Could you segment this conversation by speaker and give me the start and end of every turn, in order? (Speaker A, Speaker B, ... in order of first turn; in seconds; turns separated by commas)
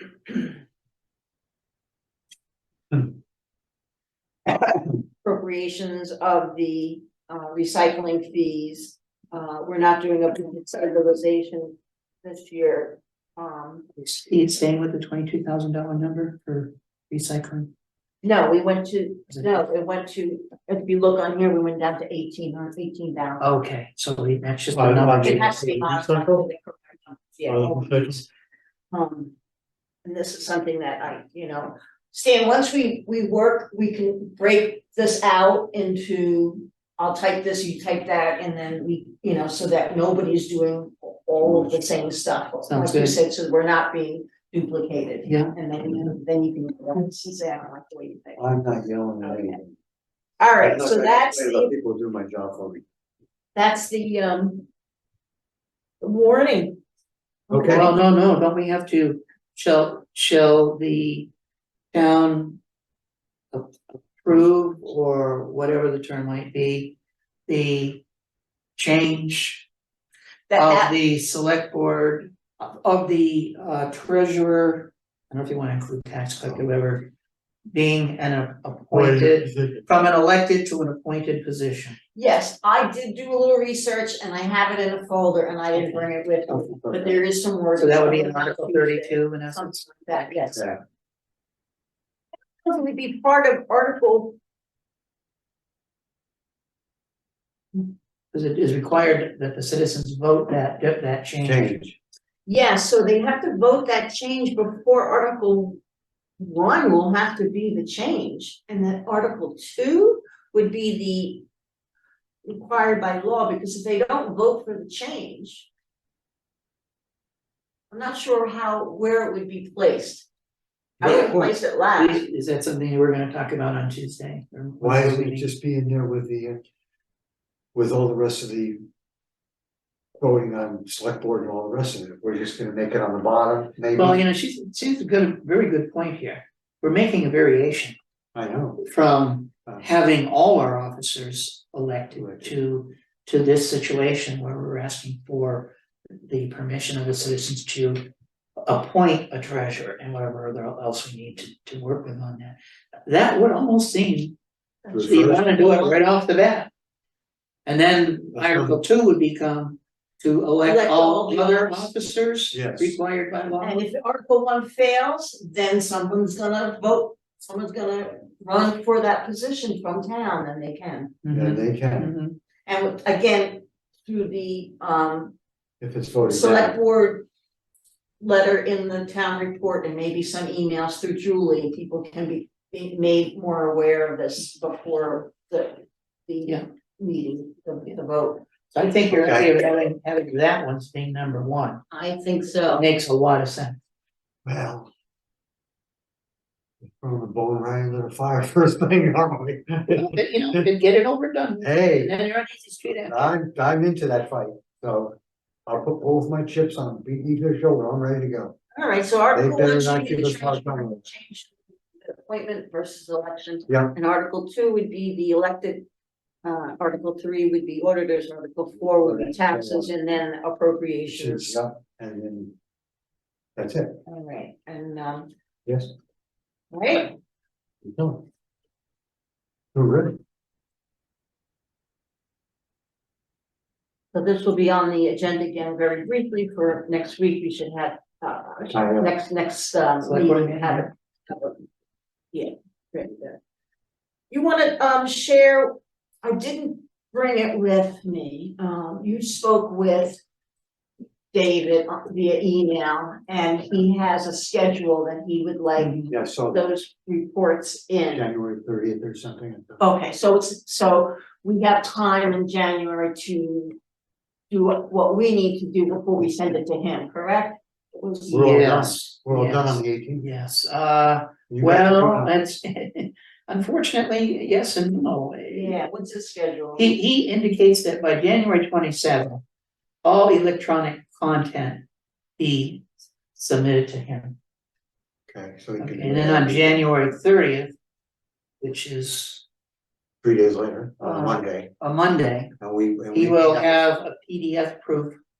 Speaker A: 5.2-13.8, Speaker B: 13.9-17.7, Speaker A: 18.2-23.5, Speaker B: 23.4-25.6, Speaker C: 24.7-26.4, Speaker A: 25.2-28.2, Speaker C: 27.5-28.2, Speaker A: 28.9-29.3, Speaker A: 30.0-48.4, Speaker C: 41.4-41.8, Speaker B: 42.6-43.2, Speaker B: 45.2-46.1, Speaker C: 48.4-49.6, Speaker A: 49.2-49.6, Speaker A: 50.4-51.7, Speaker C: 50.6-52.8, Speaker A: 53.5-54.7, Speaker A: 56.0-56.8, Speaker A: 57.5-58.0, Speaker C: 57.5-57.9, Speaker B: 57.6-61.3, Speaker B: 61.9-62.6, Speaker B: 63.5-68.0, Speaker B: 68.8-69.7, Speaker A: 70.5-71.0, Speaker B: 70.5-77.1, Speaker B: 77.7-82.0, Speaker C: 78.9-79.8, Speaker A: 82.1-90.7, Speaker C: 86.5-87.2, Speaker B: 87.8-90.4, Speaker A: 92.6-94.4, Speaker B: 98.3-101.8, Speaker C: 101.4-102.0, Speaker A: 102.5-105.8, Speaker A: 106.4-111.4, Speaker A: 112.4-115.7, Speaker A: 117.9-120.3, Speaker A: 121.0-122.2, Speaker C: 121.0-121.5, Speaker B: 121.0-125.5, Speaker C: 124.8-126.6, Speaker C: 127.7-128.8, Speaker C: 130.2-134.2, Speaker B: 133.9-137.9, Speaker C: 138.3-138.8, Speaker B: 138.8-148.1, Speaker C: 142.1-142.5, Speaker B: 148.6-154.3, Speaker A: 154.8-156.0, Speaker C: 154.9-155.4, Speaker B: 155.0-156.7, Speaker B: 157.7-163.8, Speaker C: 158.3-158.8, Speaker A: 160.6-161.9, Speaker C: 162.5-162.9, Speaker A: 163.6-171.2, Speaker B: 171.2-172.4, Speaker C: 171.3-172.1, Speaker A: 172.7-175.3, Speaker C: 175.8-176.7, Speaker A: 176.2-177.2, Speaker A: 178.2-188.5, Speaker B: 188.7-191.8, Speaker C: 189.1-189.5, Speaker A: 191.9-192.8, Speaker B: 192.7-193.8, Speaker C: 194.4-194.9, Speaker C: 197.0-200.6, Speaker B: 199.9-203.3, Speaker C: 201.6-202.1, Speaker C: 203.0-208.6, Speaker A: 208.8-215.8, Speaker C: 209.3-211.0, Speaker C: 213.7-213.9, Speaker A: 216.4-221.6, Speaker C: 218.8-219.9, Speaker C: 221.1-222.5, Speaker C: 223.6-224.0, Speaker A: 224.1-225.3, Speaker C: 225.7-225.9, Speaker A: 226.7-227.2, Speaker C: 227.8-228.2, Speaker C: 229.7-230.2, Speaker A: 234.1-241.6, Speaker C: 238.7-239.1, Speaker B: 240.0-240.9, Speaker A: 242.3-243.4, Speaker A: 244.3-250.2, Speaker A: 251.3-258.2, Speaker B: 255.8-256.1, Speaker C: 256.1-256.6, Speaker C: 258.1-259.8, Speaker A: 259.8-263.8, Speaker A: 264.5-268.5, Speaker B: 268.3-275.8, Speaker C: 268.3-270.3, Speaker C: 271.5-272.3, Speaker A: 275.5-277.0, Speaker B: 276.8-279.4, Speaker B: 280.0-281.8, Speaker B: 282.4-284.4, Speaker C: 285.3-286.8, Speaker B: 285.8-287.7, Speaker B: 288.6-289.4, Speaker C: 290.2-291.7, Speaker B: 291.0-292.5, Speaker C: 292.6-293.7, Speaker B: 293.1-295.2